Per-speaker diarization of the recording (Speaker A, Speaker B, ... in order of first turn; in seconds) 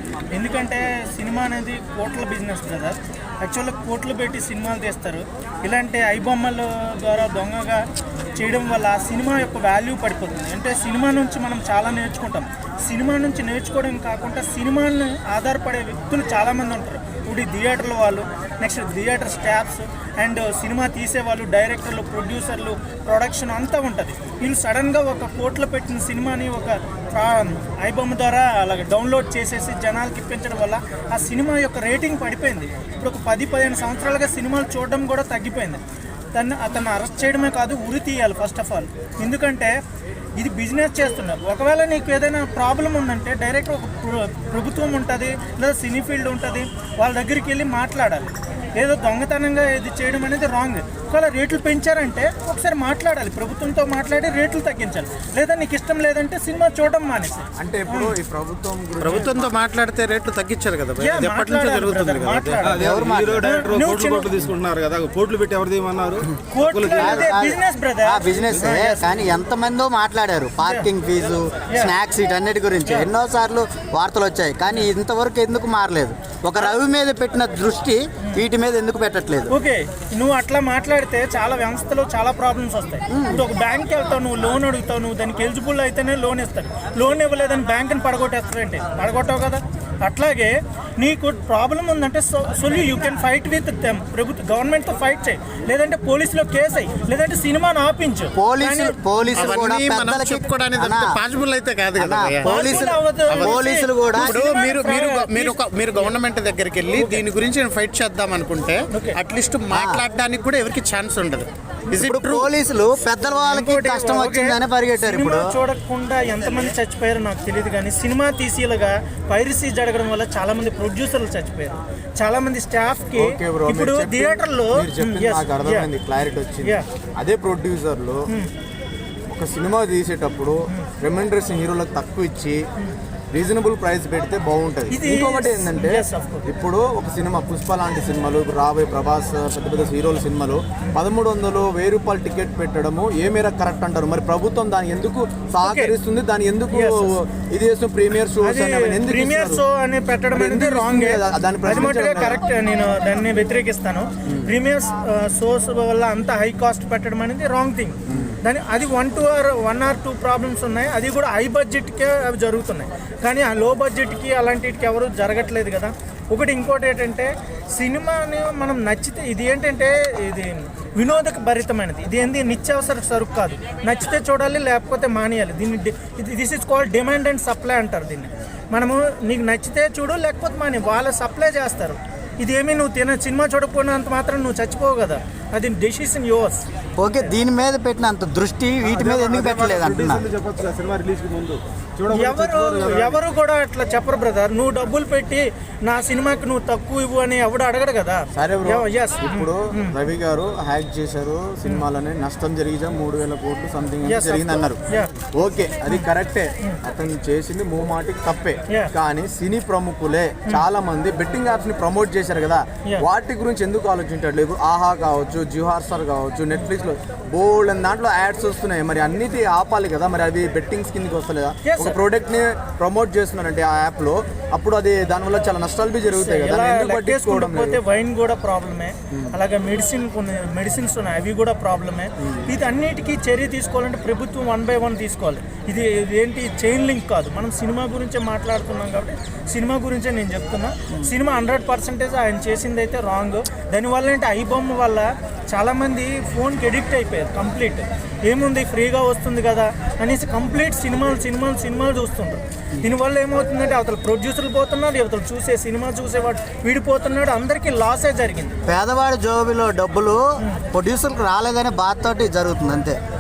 Speaker A: 0.3-7.8, 8.4-35.8, 36.3-39.8, 40.4-58.1, 61.0-64.4, 66.5-69.0, 70.6-70.9, 72.8-73.1, 79.5-99.5, 102.4-105.6, 106.9-107.2, 108.9-109.2, 113.3-125.9, 134.9-136.4, 145.6-145.9, 146.7-147.1, 148.4-186.7, 192.1-200.0, 204.1-205.1, 221.7-222.0, 226.1-258.6, 260.4-260.6
Speaker B: 57.6-59.5, 123.1-128.3, 129.3-132.6, 133.3-149.6, 150.3-152.5, 158.1-158.4, 198.3-204.8, 205.3-227.8
Speaker C: 59.0-62.7, 99.3-112.5
Speaker D: 62.6-67.3, 188.8-193.2
Speaker E: 62.7-63.5, 67.0-79.5, 83.1-83.4, 98.4-101.1, 102.0-104.4, 109.7-110.0, 111.9-115.5, 187.0-190.3, 258.7-263.0